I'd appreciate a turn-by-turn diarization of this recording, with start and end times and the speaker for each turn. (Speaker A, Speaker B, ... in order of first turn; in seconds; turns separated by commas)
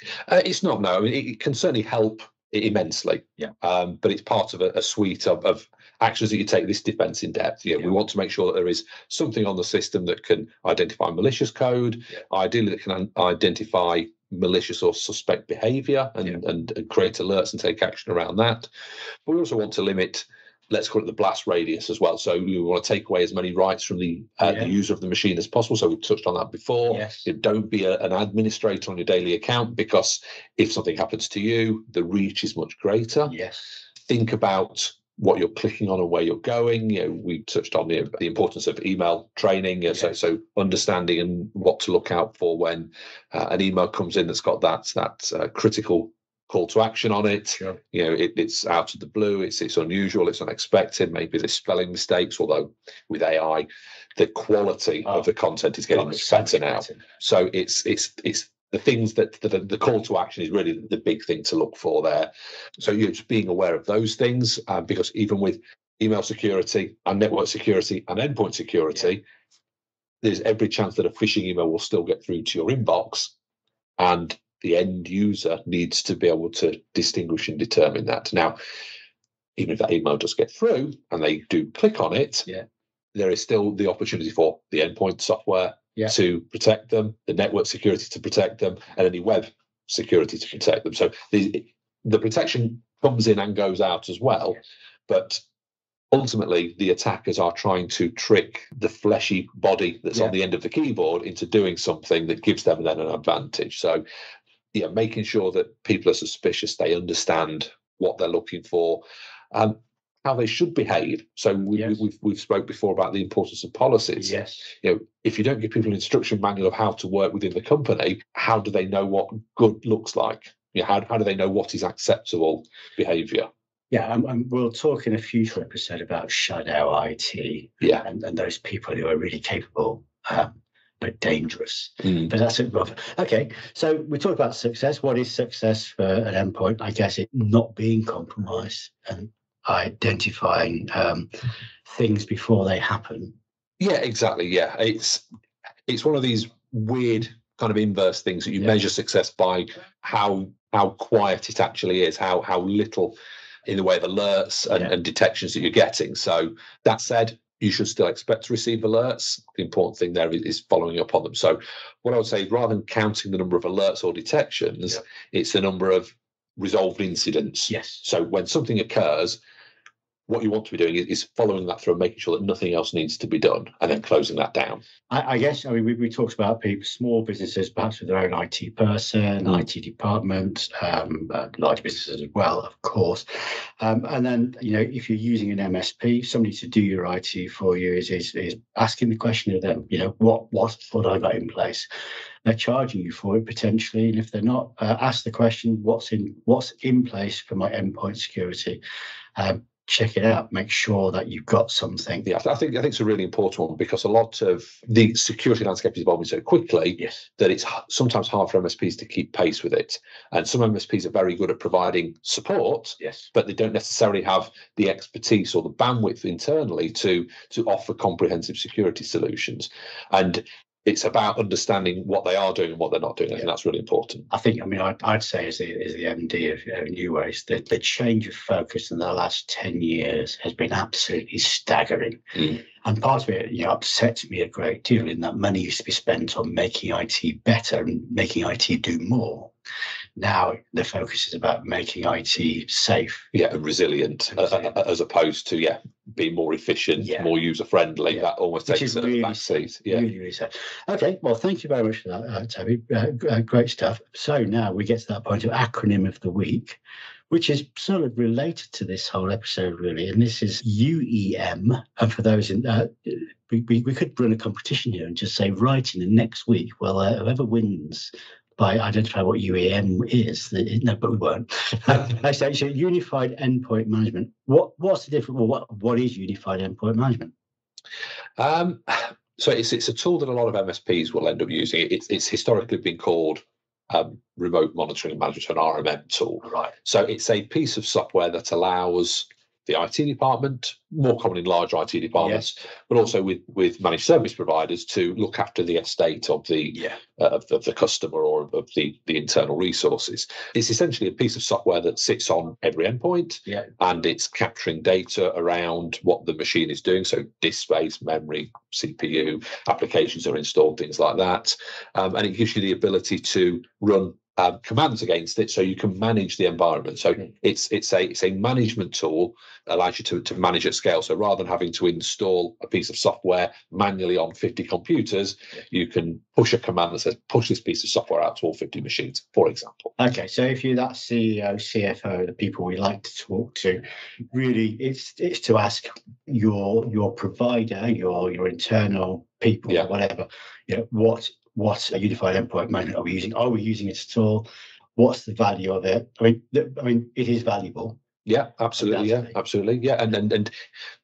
Speaker A: 0.3-18.7, Speaker A: 19.2-33.3, Speaker B: 24.4-24.7, Speaker B: 26.9-27.3, Speaker B: 33.2-33.8, Speaker A: 34.1-53.6, Speaker B: 39.9-40.1, Speaker A: 54.2-69.2, Speaker B: 55.9-57.0, Speaker A: 70.2-73.3, Speaker A: 74.0-78.6, Speaker A: 79.6-82.5, Speaker A: 83.1-95.4, Speaker A: 96.1-104.0, Speaker A: 104.7-123.5, Speaker B: 114.2-114.7, Speaker B: 123.9-141.3, Speaker B: 141.8-143.3, Speaker A: 143.8-145.2, Speaker A: 145.9-169.4, Speaker B: 167.7-168.0, Speaker A: 170.3-174.8, Speaker B: 175.1-191.9, Speaker B: 192.4-198.8, Speaker B: 199.3-202.2, Speaker A: 202.2-224.3, Speaker B: 207.0-207.2, Speaker B: 213.0-213.3, Speaker B: 224.3-239.5, Speaker B: 240.2-243.3, Speaker A: 243.3-250.0, Speaker B: 244.4-244.7, Speaker B: 247.0-247.3, Speaker B: 248.1-256.8, Speaker B: 257.3-277.3, Speaker A: 278.4-329.9, Speaker B: 286.4-286.7, Speaker B: 292.1-292.5, Speaker B: 296.7-297.0, Speaker B: 330.0-348.0, Speaker A: 348.2-350.5, Speaker B: 348.8-349.3